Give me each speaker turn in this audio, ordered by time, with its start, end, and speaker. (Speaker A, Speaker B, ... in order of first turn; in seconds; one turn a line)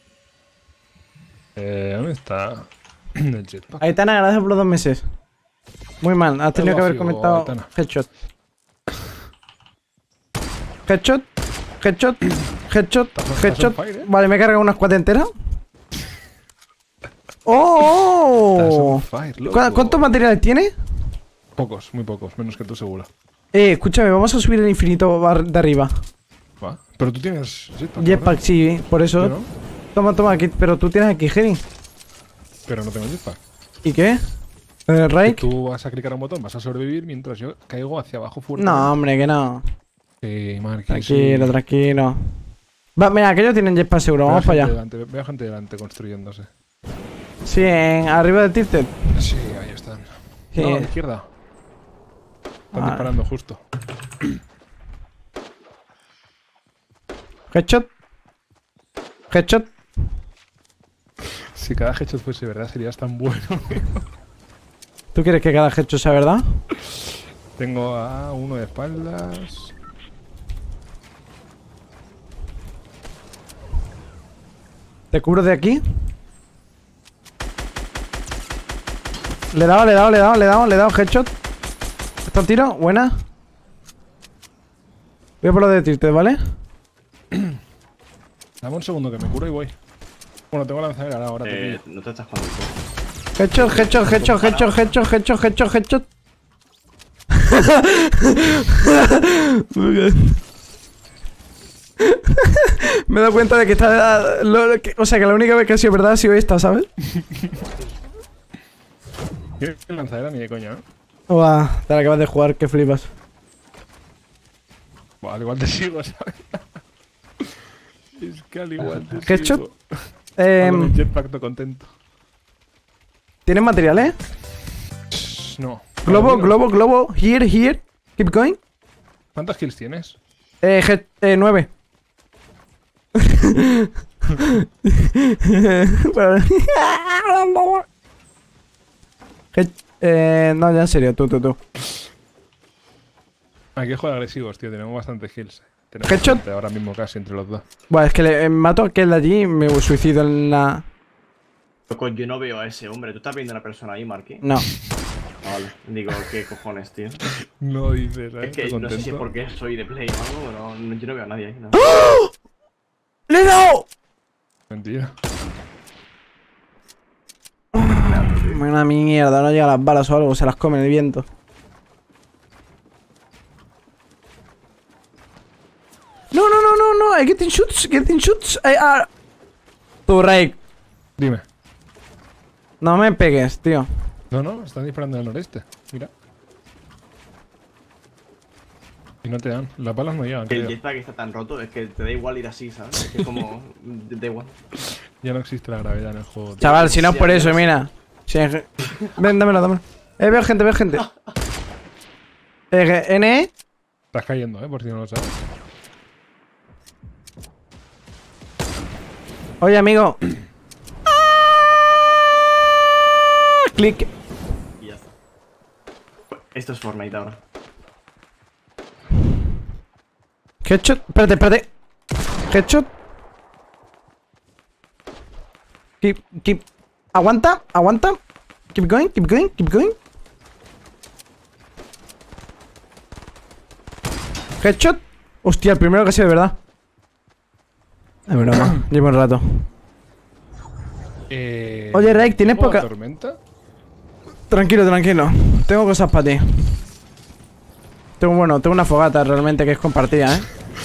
Speaker A: 1.6-3.9
Speaker B: 3.8-5.0
Speaker B: 6.0-8.1
Speaker A: 6.5-7.7
Speaker B: 10.9-11.2
Speaker B: 11.8-15.3
Speaker A: 13.1-14.1
Speaker B: 17.4-20.7
Speaker A: 18.5-20.1
Speaker A: 21.6-23.1
Speaker B: 23.5-25.9
Speaker A: 26.6-28.4
Speaker B: 28.0-29.3
Speaker A: 29.2-29.5
Speaker B: 29.9-31.6
Speaker A: 32.7-33.4
Speaker B: 33.8-34.2
Speaker B: 34.9-35.4
Speaker A: 35.2-39.0
Speaker B: 38.6-39.6
Speaker A: 40.2-41.6
Speaker B: 40.9-42.2
Speaker B: 43.0-44.7
Speaker A: 44.2-46.5
Speaker B: 47.4-48.9
Speaker A: 49.1-51.2
Speaker B: 50.5-50.9
Speaker B: 52.7-53.1
Speaker A: 52.7-53.6
Speaker B: 57.5-57.9
Speaker B: 59.3-59.7
Speaker A: 61.5-64.0
Speaker B: 65.1-66.4
Speaker A: 67.6-69.7
Speaker B: 75.1-75.8
Speaker B: 79.5-81.3
Speaker B: 82.2-83.1
Speaker B: 85.4-86.4
Speaker A: 87.3-87.6
Speaker A: 88.6-89.7
Speaker A: 90.5-91.8
Speaker C: 91.4-92.8
Speaker B: 93.4-96.0
Speaker C: 93.6-94.8
Speaker B: 97.4-100.4
Speaker B: 102.0-106.9
Speaker A: 107.2-107.5
Speaker A: 109.6-110.8
Speaker B: 111.3-113.1
Speaker A: 115.2-116.6
Speaker A: 118.2-119.8
Speaker B: 118.9-119.6
Speaker B: 120.4-121.0
Speaker A: 120.6-121.9
Speaker B: 123.5-124.2
Speaker A: 125.1-126.6
Speaker B: 126.0-128.6
Speaker A: 129.3-130.2
Speaker B: 130.6-131.7
Speaker B: 133.2-137.8
Speaker B: 139.5-141.6
Speaker A: 143.8-147.6
Speaker B: 146.0-146.4
Speaker B: 147.9-150.8
Speaker C: 151.9-154.4
Speaker B: 154.4-154.7
Speaker C: 155.4-157.2
Speaker A: 157.6-159.3
Speaker C: 158.4-161.9
Speaker B: 161.8-162.3
Speaker B: 163.3-163.9
Speaker A: 164.7-165.1
Speaker B: 167.7-171.2
Speaker C: 167.8-168.6
Speaker B: 176.3-179.1
Speaker B: 180.1-180.6
Speaker A: 181.2-181.4
Speaker B: 182.8-183.9
Speaker A: 184.3-186.1
Speaker A: 189.2-190.8
Speaker C: 190.5-194.6
Speaker A: 195.2-196.9
Speaker C: 196.6-197.7
Speaker B: 196.6-201.1
Speaker B: 202.7-203.5
Speaker A: 204.1-205.4
Speaker B: 209.6-210.2
Speaker B: 213.6-214.1
Speaker C: 214.8-215.1
Speaker C: 216.3-217.4
Speaker B: 220.6-221.7
Speaker B: 222.5-222.9
Speaker B: 226.0-228.2
Speaker B: 228.7-230.0
Speaker B: 234.6-236.6
Speaker B: 238.3-239.6
Speaker A: 238.5-238.8
Speaker A: 241.3-243.4
Speaker B: 241.9-242.9
Speaker B: 244.5-246.8
Speaker B: 248.2-250.5